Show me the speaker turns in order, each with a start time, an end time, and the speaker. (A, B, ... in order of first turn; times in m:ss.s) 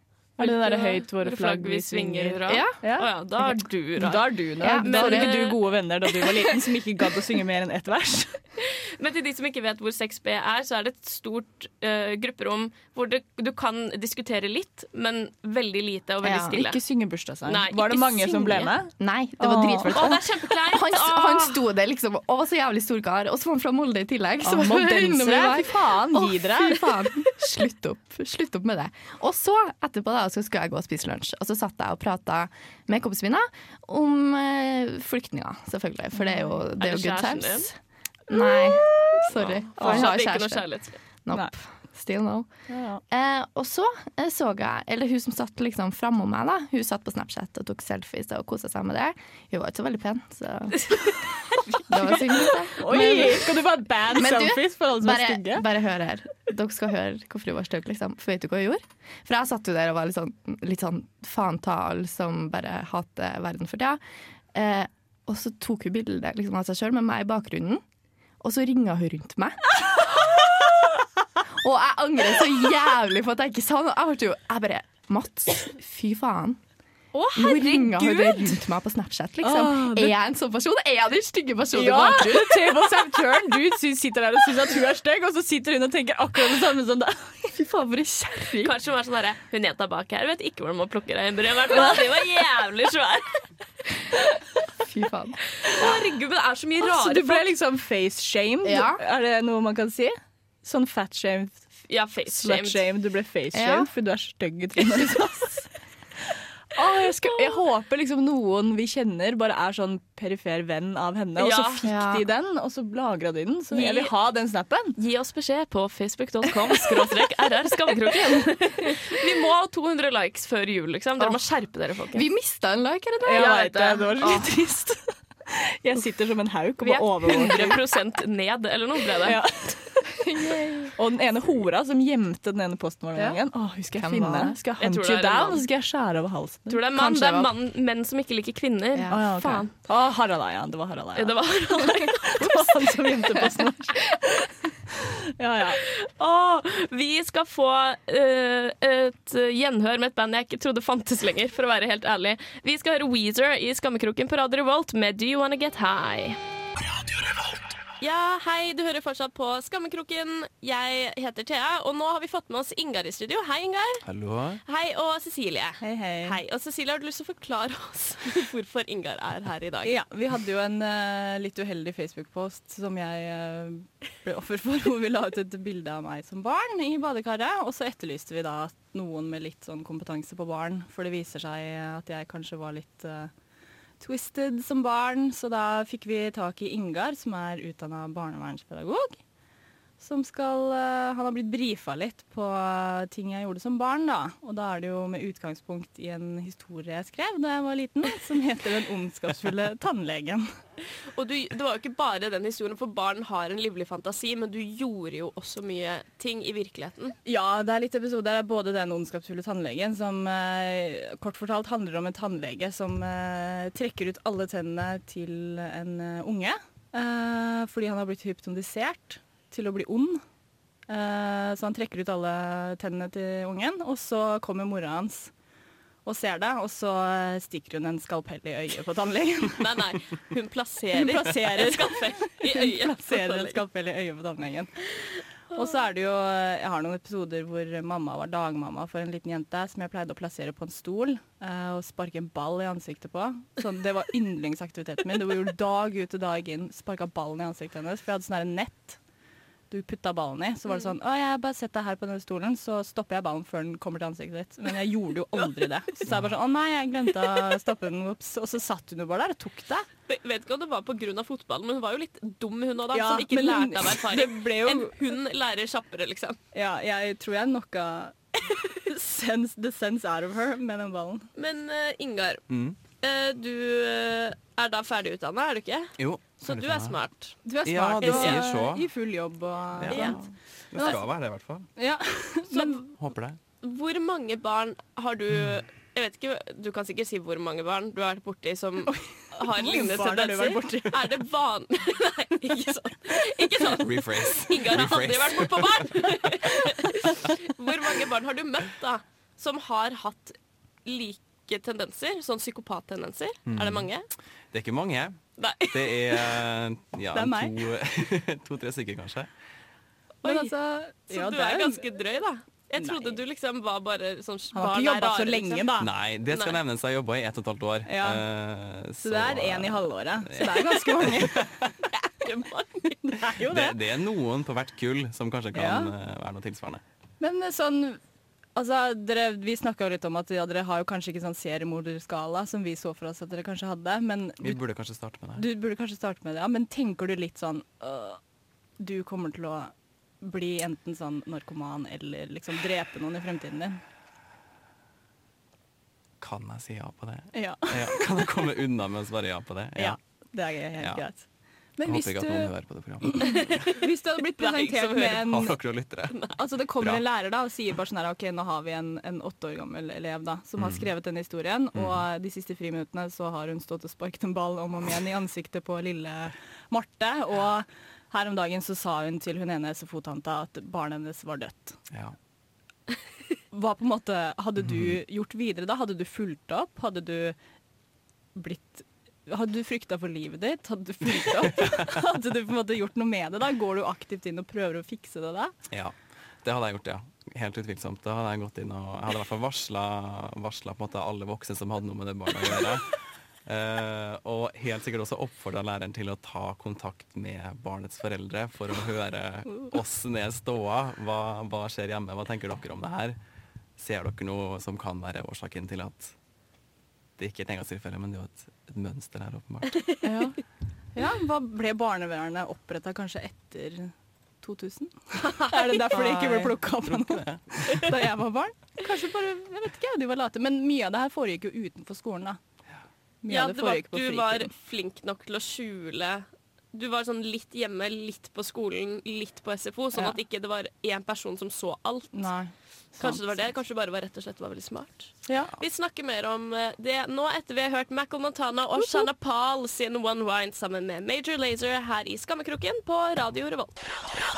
0:00.4-0:03.1 A
0:00.4-0:05.6 B
0:02.5-0:02.8 C
0:03.4-0:03.6 C
0:04.0-0:08.4 A
0:04.6-0:05.4 C
0:08.6-0:16.8 B
0:16.2-0:16.6 C
0:16.5-0:20.2 A
0:17.4-0:18.7 B
0:19.0-0:37.8 C
0:19.9-0:21.6 B
0:24.4-0:27.1 A
0:36.2-0:36.6 A
0:36.8-0:37.7 B
0:38.3-0:51.0 C
0:39.0-0:41.0 B
0:39.8-0:40.1 A
0:42.7-0:43.0 A
0:51.5-0:52.5 B
0:51.9-0:53.5 C
0:52.8-0:55.6 A
0:54.1-1:04.0 C
1:04.5-1:07.8 C
1:08.4-1:10.5 C
1:11.5-1:16.6 C
1:17.1-1:18.4 B
1:17.3-1:23.3 C
1:19.4-1:20.1 A
1:21.7-1:27.5 A
1:27.5-1:28.7 C
1:28.6-1:33.4 B
1:34.8-1:35.4 C
1:35.6-1:37.5 B
1:36.8-1:41.7 A
1:38.6-1:39.0 C
1:41.9-1:42.8 B
1:42.3-1:45.7 A
1:43.5-1:43.9 C
1:46.7-1:55.0 A
1:51.4-1:51.8 B
1:51.8-1:52.2 C
1:53.7-1:54.1 B
1:55.0-2:02.2 B
2:02.1-2:04.5 C
2:03.2-2:07.8 A
2:06.8-2:09.4 B
2:09.2-2:10.1 A
2:10.2-2:10.9 C
2:11.0-2:16.8 A
2:13.1-2:14.6 C
2:14.8-2:15.6 B
2:16.7-2:19.7 B
2:16.9-2:17.5 C
2:18.9-2:19.6 C
2:19.1-2:25.8 A
2:21.1-2:22.9 B
2:25.8-2:36.4 B
2:38.0-2:44.0 B
2:44.0-2:44.6 D
2:44.6-2:49.9 B
2:45.8-2:46.4 A
2:49.8-3:03.3 A
3:04.0-3:09.2 A
3:10.0-3:20.5 A
3:21.1-3:27.2 B
3:27.2-3:40.2 A
3:40.9-3:45.3 A
3:46.0-3:49.7 A
3:49.6-3:53.6 B
3:50.9-3:55.0 A
3:55.5-4:09.0 A
4:09.7-4:19.8 A
4:16.1-4:16.3 D
4:20.1-4:26.4 B
4:22.9-4:25.1 A
4:26.5-4:31.3 A
4:31.4-4:37.4 B
4:32.5-4:32.8 D
4:36.0-4:38.9 D
4:37.4-4:41.0 A
4:38.0-4:38.5 B
4:39.8-4:41.7 D
4:39.9-4:40.2 B
4:41.8-4:42.8 A
4:42.5-4:43.0 B
4:43.0-4:43.4 D
4:43.6-5:04.1 B
4:48.9-4:51.1 A
4:53.7-4:56.1 D
5:03.5-5:09.3 D
5:05.4-5:06.4 B
5:07.1-5:07.6 A
5:10.2-5:10.5 B
5:10.2-5:11.8 A
5:11.1-5:15.7 B
5:12.7-5:13.2 A
5:14.5-5:15.9 A
5:15.8-5:21.7 D
5:16.3-5:16.6 B
5:17.8-5:18.2 A
5:19.0-5:21.7 A
5:22.2-5:23.3 B
5:23.1-5:23.7 A
5:23.4-5:26.8 D
5:25.5-5:25.9 A
5:27.2-5:28.0 A
5:28.5-5:34.6 A
5:34.4-5:35.4 D
5:35.3-5:38.2 A
5:38.8-5:43.8 A
5:46.2-5:50.0 D
5:47.3-5:48.1 A
5:49.8-5:55.6 A
5:50.8-5:51.0 D
5:51.8-5:53.6 D
5:53.3-5:53.8 B
5:54.4-5:55.3 B
5:55.1-5:57.0 D
5:56.4-6:11.9 A
6:00.6-6:00.9 D
6:01.7-6:02.0 D
6:13.5-6:17.4 A
6:14.6-6:15.0 D
6:18.3-6:25.5 A
6:25.7-6:43.2 D
6:43.8-6:46.1 D
6:47.2-6:50.0 D
6:50.0-7:02.4 A
6:55.3-6:55.8 B
6:55.9-6:57.9 D
7:03.2-7:04.5 A
7:03.3-7:12.3 B
7:12.1-7:13.2 A
7:12.9-7:24.2 B
7:15.2-7:15.5 A